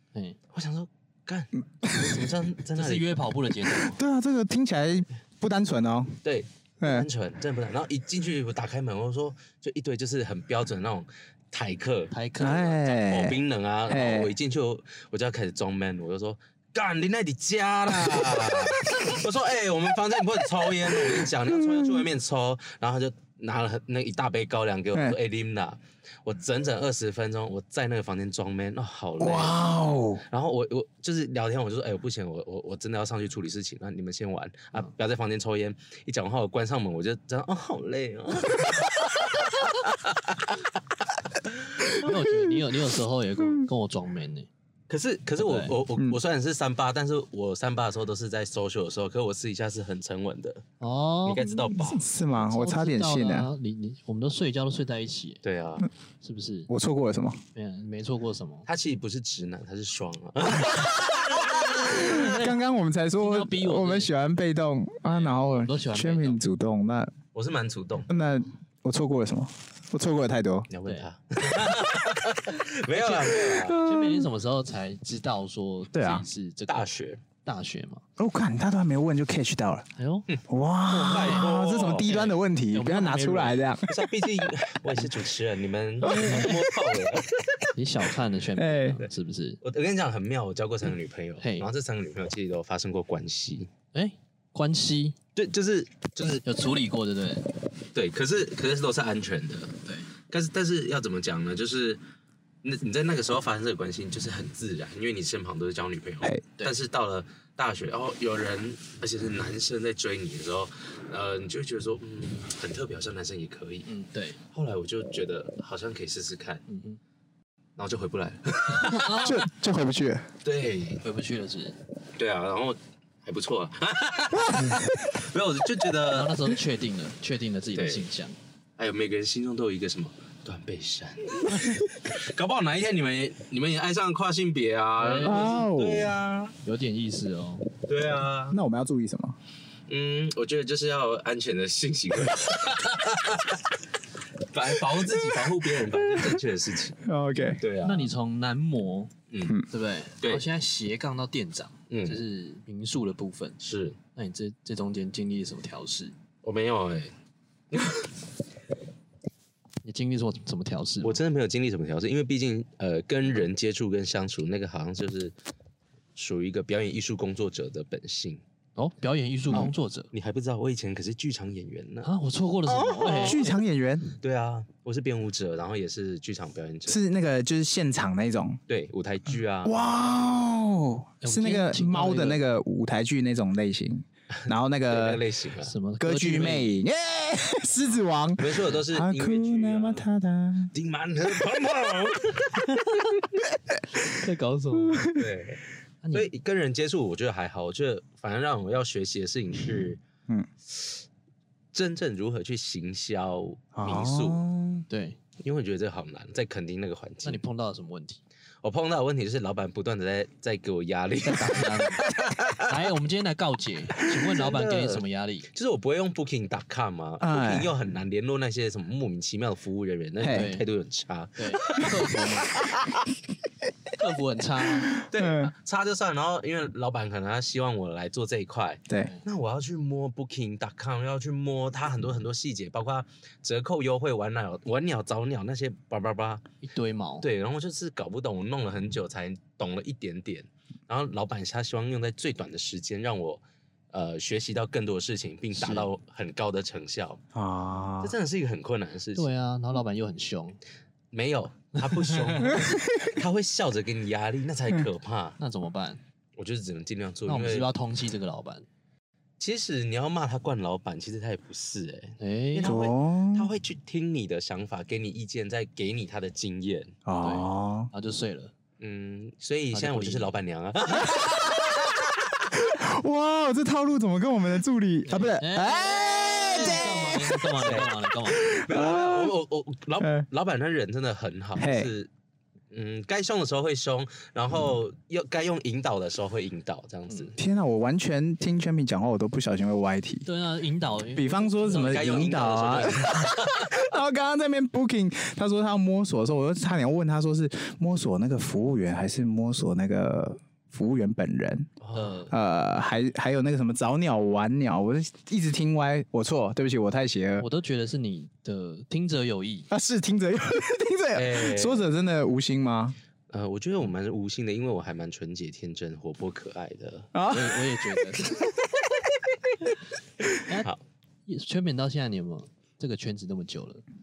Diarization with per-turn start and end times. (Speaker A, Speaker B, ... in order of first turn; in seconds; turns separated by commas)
Speaker A: 0.5-3.2, Speaker B: 1.8-2.2, Speaker C: 2.8-4.0, Speaker B: 3.8-6.2, Speaker A: 6.2-40.7, Speaker B: 6.8-7.1, Speaker C: 12.1-12.8, Speaker B: 12.4-14.3, Speaker B: 20.9-22.1, Speaker B: 29.2-30.2, Speaker B: 41.9-42.6, Speaker C: 42.0-44.5, Speaker A: 44.9-50.6, Speaker C: 45.4-45.7, Speaker C: 50.8-51.6, Speaker A: 51.2-52.1, Speaker B: 51.7-53.5, Speaker C: 52.4-55.4, Speaker A: 55.4-55.9, Speaker C: 56.2-56.7, Speaker B: 56.7-57.4, Speaker C: 57.5-58.7, Speaker A: 58.7-62.3, Speaker B: 60.5-67.1, Speaker C: 61.3-62.6, Speaker C: 63.2-64.1, Speaker C: 65.0-66.4, Speaker A: 67.3-68.1, Speaker B: 68.1-70.7, Speaker A: 70.7-73.8, Speaker B: 73.0-74.3, Speaker C: 73.8-76.9, Speaker B: 75.9-76.2, Speaker A: 76.7-77.2, Speaker C: 77.4-78.0, Speaker B: 78.2-79.9, Speaker C: 80.0-80.3, Speaker A: 80.3-82.1, Speaker B: 80.5-84.5, Speaker C: 81.1-81.5, Speaker C: 82.0-83.7, Speaker A: 83.9-87.4, Speaker C: 86.0-86.5, Speaker B: 86.0-86.7, Speaker C: 87.8-89.6, Speaker B: 88.6-89.0, Speaker A: 89.6-93.7, Speaker C: 91.4-91.7, Speaker C: 93.9-95.2, Speaker A: 95.3-96.5, Speaker C: 96.4-97.5, Speaker A: 97.9-99.8, Speaker C: 99.8-100.1, Speaker A: 100.3-102.0, Speaker A: 102.6-113.9, Speaker C: 113.9-114.4, Speaker A: 114.5-116.6, Speaker C: 116.7-117.0, Speaker A: 117.8-119.3, Speaker C: 118.7-119.5, Speaker B: 119.2-120.3, Speaker A: 120.4-121.0, Speaker C: 121.0-121.8, Speaker A: 122.2-126.6, Speaker B: 124.4-125.2, Speaker C: 126.1-128.4, Speaker A: 127.7-128.1, Speaker A: 128.8-136.6, Speaker C: 135.0-135.5, Speaker B: 135.2-136.1, Speaker C: 136.7-137.7, Speaker A: 137.9-138.6, Speaker B: 138.5-139.4, Speaker A: 139.9-143.7, Speaker A: 144.5-147.0, Speaker B: 147.0-147.6, Speaker A: 147.6-148.1, Speaker C: 147.8-149.1, Speaker A: 149.3-149.6, Speaker C: 149.7-153.6, Speaker A: 150.2-150.5, Speaker A: 151.9-152.2, Speaker A: 153.6-154.0, Speaker C: 154.2-156.2, Speaker A: 156.4-157.1, Speaker A: 157.7-158.1, Speaker C: 159.8-161.2, Speaker A: 161.0-165.3, Speaker A: 166.2-168.4, Speaker C: 168.8-170.1, Speaker A: 169.5-172.1, Speaker C: 172.0-173.4, Speaker A: 172.7-173.6, Speaker B: 173.1-174.2, Speaker A: 174.2-177.0, Speaker B: 176.9-178.6, Speaker A: 178.7-179.8, Speaker B: 179.6-185.2, Speaker C: 181.2-182.4, Speaker A: 184.4-185.8, Speaker C: 185.6-186.8, Speaker B: 186.0-190.7, Speaker A: 188.4-190.1, Speaker A: 190.7-193.3, Speaker C: 193.9-195.1, Speaker B: 194.8-195.3, Speaker A: 195.2-200.0, Speaker C: 196.0-196.3, Speaker A: 200.7-201.0, Speaker A: 201.7-204.4, Speaker B: 203.8-204.8, Speaker C: 204.9-205.2, Speaker A: 205.4-207.4, Speaker C: 207.2-208.2, Speaker A: 208.6-212.7, Speaker C: 211.2-212.0, Speaker C: 212.7-215.5, Speaker A: 214.1-223.0, Speaker B: 217.2-217.7, Speaker B: 220.2-220.5, Speaker C: 220.3-220.7, Speaker C: 221.4-222.5, Speaker C: 223.9-225.0, Speaker B: 224.9-225.5, Speaker A: 225.0-236.5, Speaker C: 228.9-229.2, Speaker C: 236.6-237.3, Speaker A: 237.2-247.2, Speaker C: 245.6-245.9, Speaker B: 247.3-248.2, Speaker A: 248.0-249.3, Speaker C: 249.2-250.6, Speaker A: 251.1-255.4, Speaker C: 251.8-252.7, Speaker B: 252.5-252.8, Speaker C: 255.4-256.0, Speaker A: 256.4-257.7, Speaker C: 257.3-258.7, Speaker A: 259.4-266.9, Speaker C: 262.2-262.8, Speaker B: 262.6-263.5, Speaker B: 267.1-267.9, Speaker C: 267.2-268.5, Speaker A: 268.8-272.4, Speaker C: 269.7-270.4, Speaker B: 271.2-271.8, Speaker B: 272.5-277.5, Speaker C: 275.1-278.5, Speaker A: 277.6-277.9, Speaker B: 278.4-279.3, Speaker A: 278.4-282.1, Speaker B: 280.0-280.3, Speaker B: 281.6-281.9, Speaker A: 282.7-287.4, Speaker B: 287.4-290.3, Speaker C: 290.2-292.2, Speaker B: 291.1-301.7, Speaker A: 291.7-293.8, Speaker A: 301.8-302.3, Speaker C: 301.9-302.3, Speaker B: 302.3-307.5, Speaker C: 307.4-309.7, Speaker B: 309.7-313.0, Speaker A: 311.1-311.9, Speaker A: 313.3-317.1, Speaker B: 317.1-320.3, Speaker C: 317.3-318.3, Speaker C: 321.3-323.8